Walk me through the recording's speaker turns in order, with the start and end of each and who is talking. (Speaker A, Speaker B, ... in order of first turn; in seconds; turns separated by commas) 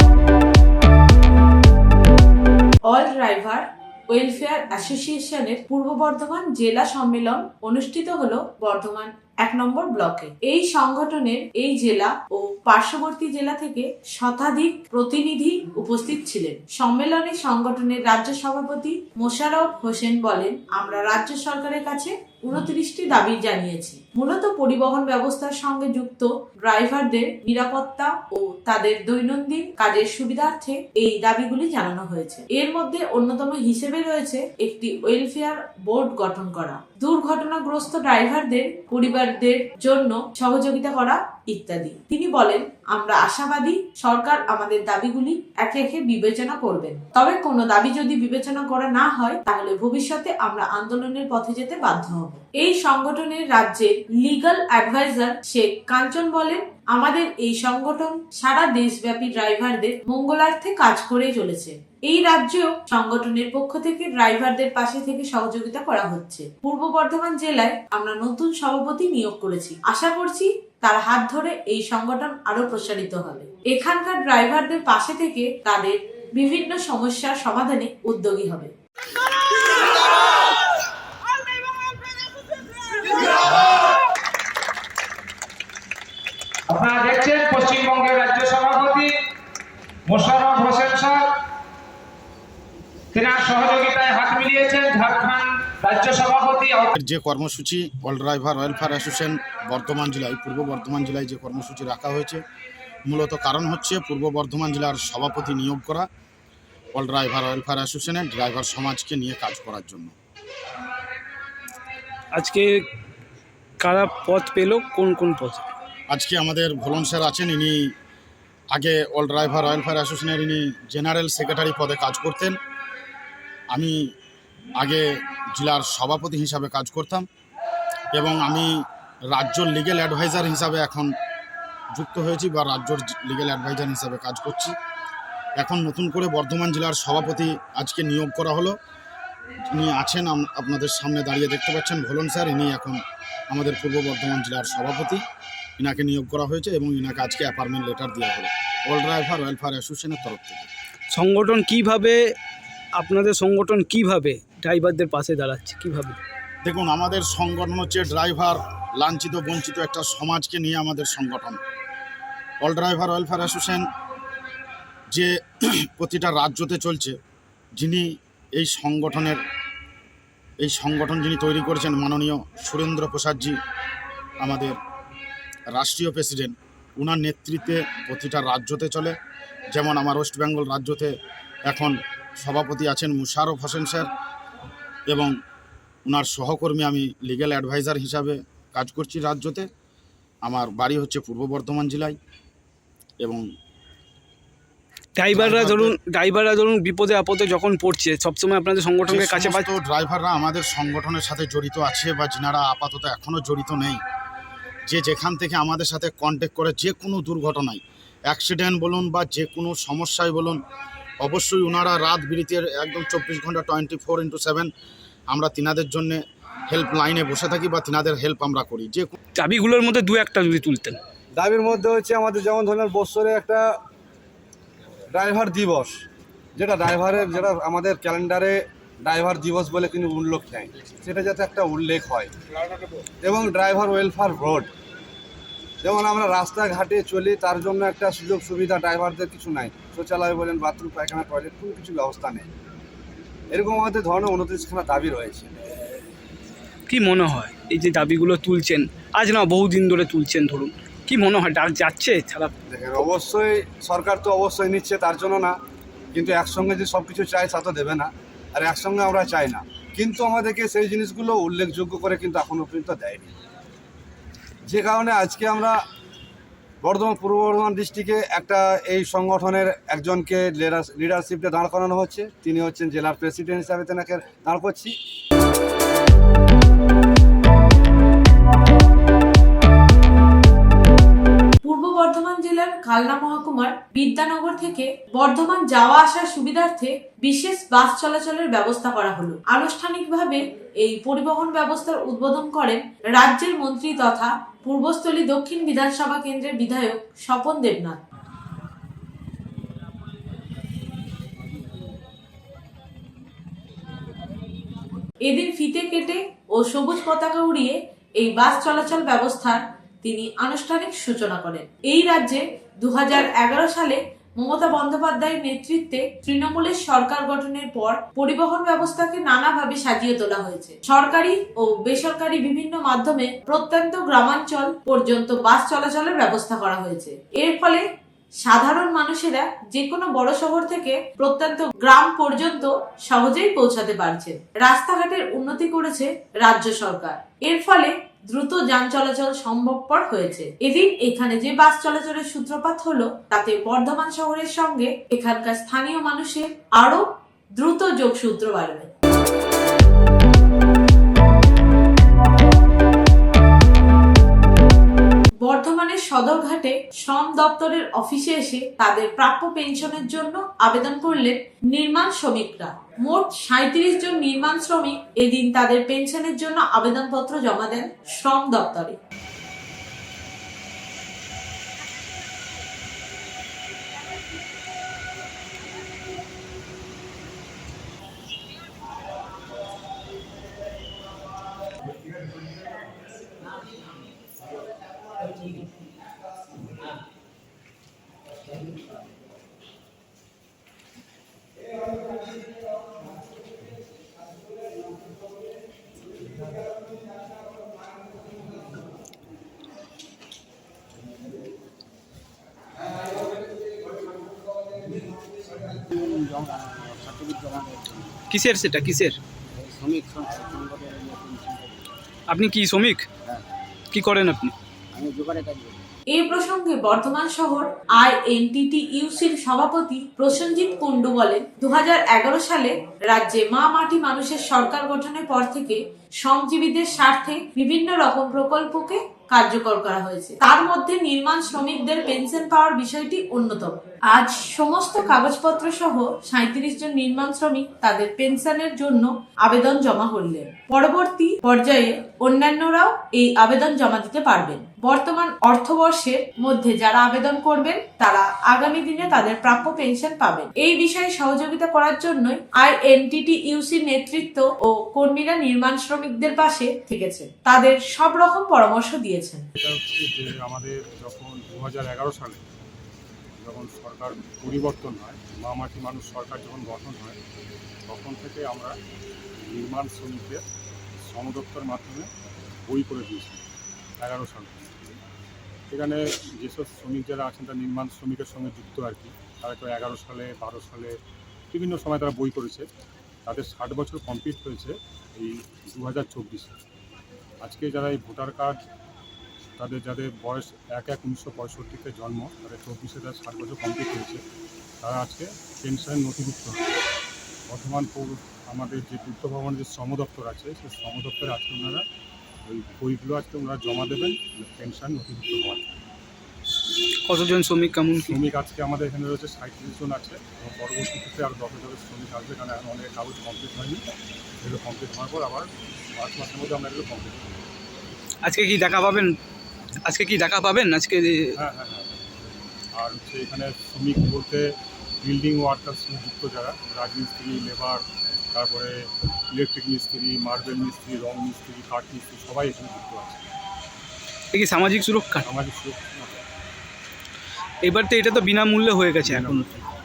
Speaker A: 2.9-78.7, Speaker B: 86.7-89.2, Speaker B: 90.1-91.3, Speaker B: 93.1-96.9, Speaker C: 96.9-102.4, Speaker C: 103.1-106.1, Speaker C: 106.9-110.1, Speaker D: 112.3-112.8, Speaker D: 113.8-115.7, Speaker C: 116.1-117.9, Speaker C: 118.7-122.5, Speaker C: 123.7-124.1, Speaker C: 124.8-127.2, Speaker C: 128.1-128.8, Speaker C: 129.3-131.1, Speaker C: 131.9-134.7, Speaker C: 135.6-138.8, Speaker C: 139.7-145.2, Speaker C: 145.8-150.7, Speaker D: 151.1-152.2, Speaker D: 153.0-156.2, Speaker C: 156.6-161.6, Speaker C: 162.6-163.8, Speaker C: 165.1-167.2, Speaker C: 167.8-169.4, Speaker C: 170.6-173.6, Speaker C: 174.4-174.8, Speaker C: 175.7-179.1, Speaker C: 179.7-181.1, Speaker C: 181.7-184.1, Speaker C: 186.1-189.7, Speaker C: 190.4-192.2, Speaker D: 195.2-199.7, Speaker C: 195.3-195.9, Speaker C: 199.1-204.0, Speaker C: 204.9-210.6, Speaker C: 211.2-214.7, Speaker C: 215.3-219.2, Speaker D: 219.3-221.0, Speaker E: 221.4-223.6, Speaker E: 225.1-225.9, Speaker E: 226.6-232.3, Speaker E: 233.2-234.7, Speaker E: 235.8-242.5, Speaker E: 243.5-245.5, Speaker D: 246.9-252.5, Speaker E: 252.7-255.6, Speaker E: 256.1-263.3, Speaker E: 264.7-265.8, Speaker E: 266.8-274.9, Speaker A: 281.6-298.0, Speaker A: 305.2-327.8, Speaker A: 328.4-347.0, Speaker A: 347.6-348.9, Speaker A: 355.4-369.0, Speaker F: 405.7-408.1, Speaker D: 408.3-409.2, Speaker F: 409.5-411.8, Speaker D: 412.3-413.1, Speaker D: 413.9-414.5, Speaker F: 414.9-415.8, Speaker A: 416.1-459.5, Speaker G: 459.6-462.4, Speaker G: 463.4-467.2, Speaker G: 467.9-468.8, Speaker G: 469.4-470.4, Speaker G: 471.0-472.1, Speaker G: 472.7-473.4, Speaker G: 474.0-475.0, Speaker G: 475.7-481.0, Speaker G: 481.5-482.7, Speaker G: 483.2-486.5, Speaker G: 487.4-488.6, Speaker G: 489.6-494.2, Speaker G: 494.8-496.6, Speaker G: 497.5-501.8, Speaker G: 502.4-505.8, Speaker D: 507.0-508.1, Speaker G: 508.1-513.8, Speaker G: 514.4-517.4, Speaker D: 518.2-519.1, Speaker D: 519.8-521.4, Speaker G: 521.4-521.9, Speaker G: 522.7-533.3, Speaker D: 534.3-535.2, Speaker G: 535.2-536.2, Speaker D: 537.6-539.5, Speaker G: 539.0-539.6